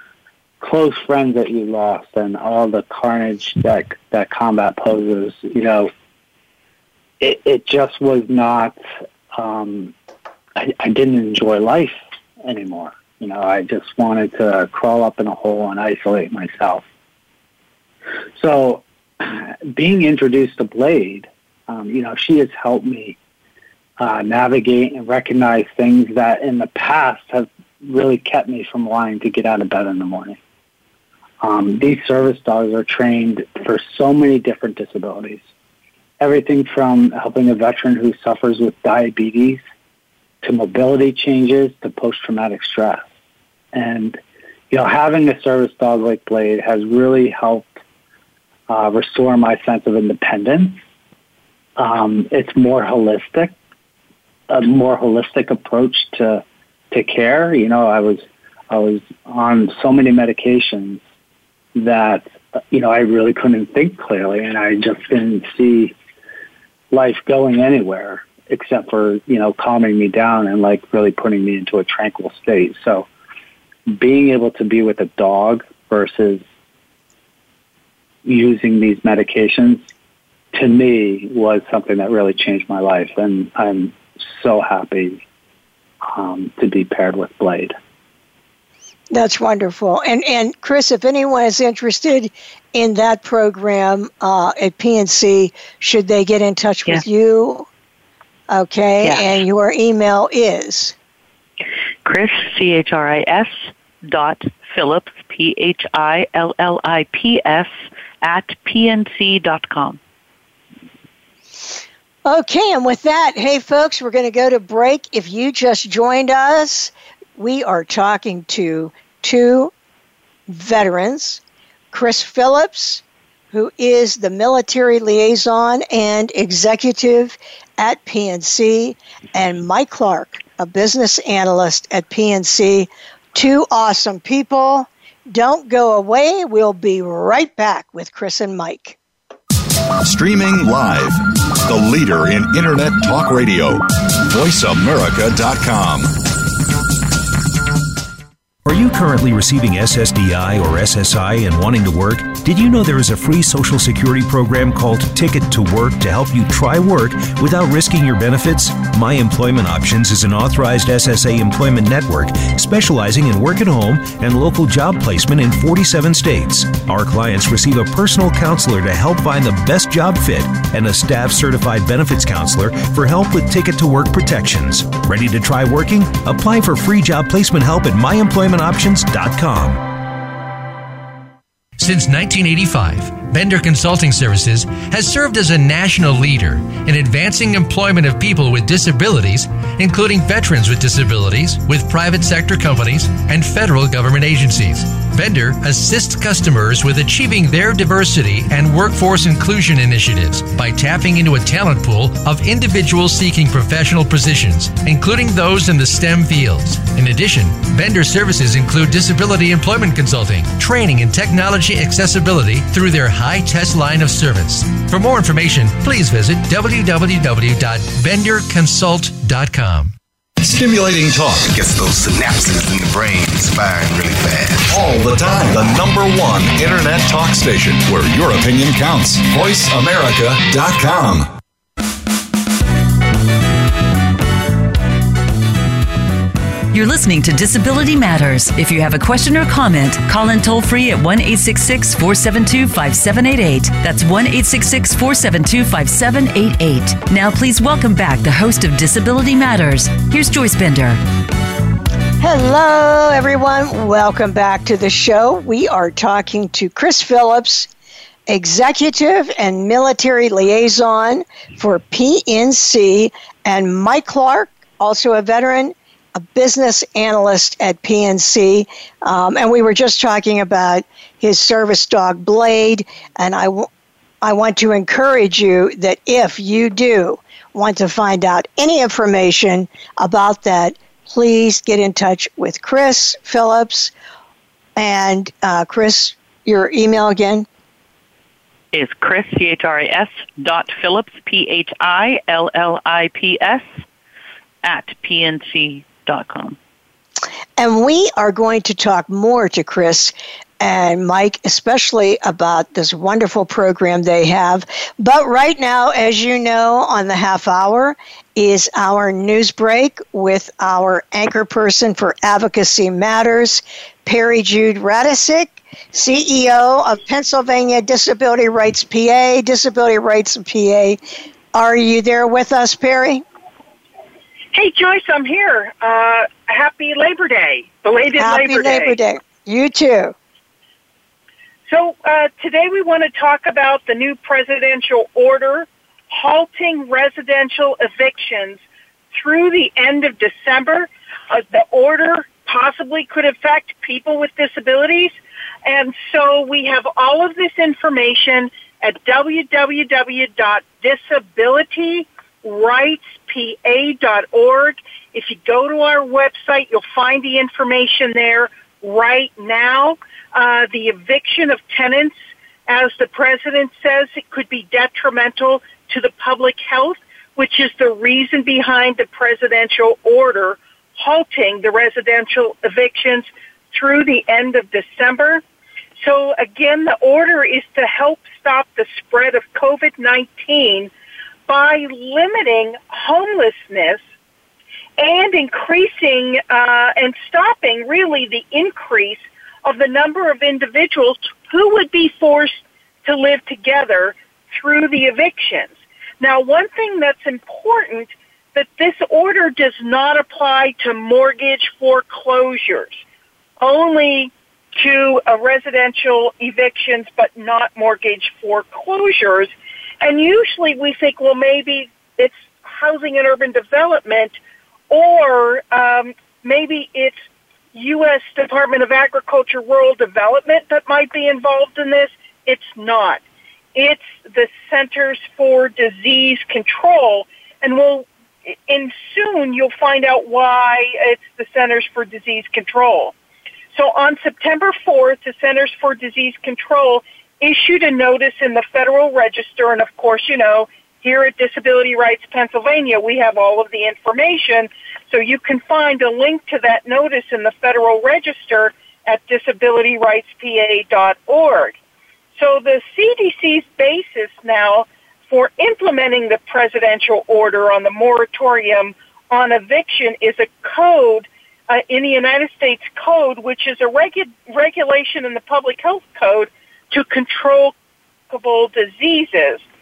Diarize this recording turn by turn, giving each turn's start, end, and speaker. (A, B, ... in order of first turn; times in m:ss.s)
0:00.6-0:05.9 A
0:07.2-0:08.8 A
0:09.3-0:09.9 A
0:10.6-0:16.8 A
0:18.4-0:23.2 A
0:24.0-0:30.4 A
0:31.4-0:35.4 A
0:36.2-0:39.6 A
0:40.4-0:43.0 A
0:43.7-0:44.2 A
0:44.7-0:47.7 A
0:48.7-0:50.8 A
0:51.8-0:53.5 A
0:54.5-1:01.0 A
1:01.7-1:05.9 A
1:06.9-1:13.1 A
1:13.9-1:16.4 A
1:18.2-1:19.8 A
1:20.5-1:25.2 A
1:26.1-1:27.7 A
1:29.1-1:37.7 B
1:38.5-1:40.9 B
1:39.0-1:39.3 C
1:42.0-1:47.7 C
1:48.2-1:50.0 C
1:52.2-1:59.7 B
2:00.5-2:01.4 B
2:01.9-2:19.0 B
2:20.0-2:26.1 D
2:28.6-2:59.9 E
3:01.8-3:39.9 F
3:40.4-3:41.5 D
3:41.4-3:44.8 G
3:44.7-3:51.3 D
3:56.7-4:11.0 H
4:12.2-4:17.7 B
4:18.3-4:33.7 B
4:34.2-4:43.9 B
4:44.8-4:47.5 B
4:48.7-4:53.6 C
4:54.6-4:56.6 C
4:57.6-5:21.0 B
5:21.5-5:23.2 B
5:24.5-5:29.0 I
5:28.1-5:30.1 B
5:31.7-5:38.6 I
5:39.1-5:45.1 I
5:45.6-6:02.1 I
6:02.7-6:15.4 I
6:16.0-6:20.9 I
6:21.5-6:24.0 I
6:25.0-6:43.0 I
6:43.6-6:54.4 I
6:54.9-6:57.1 I
6:57.7-7:03.2 I
7:03.7-7:13.1 I
7:13.7-7:31.7 I
7:32.4-7:47.7 I
7:48.3-7:49.6 I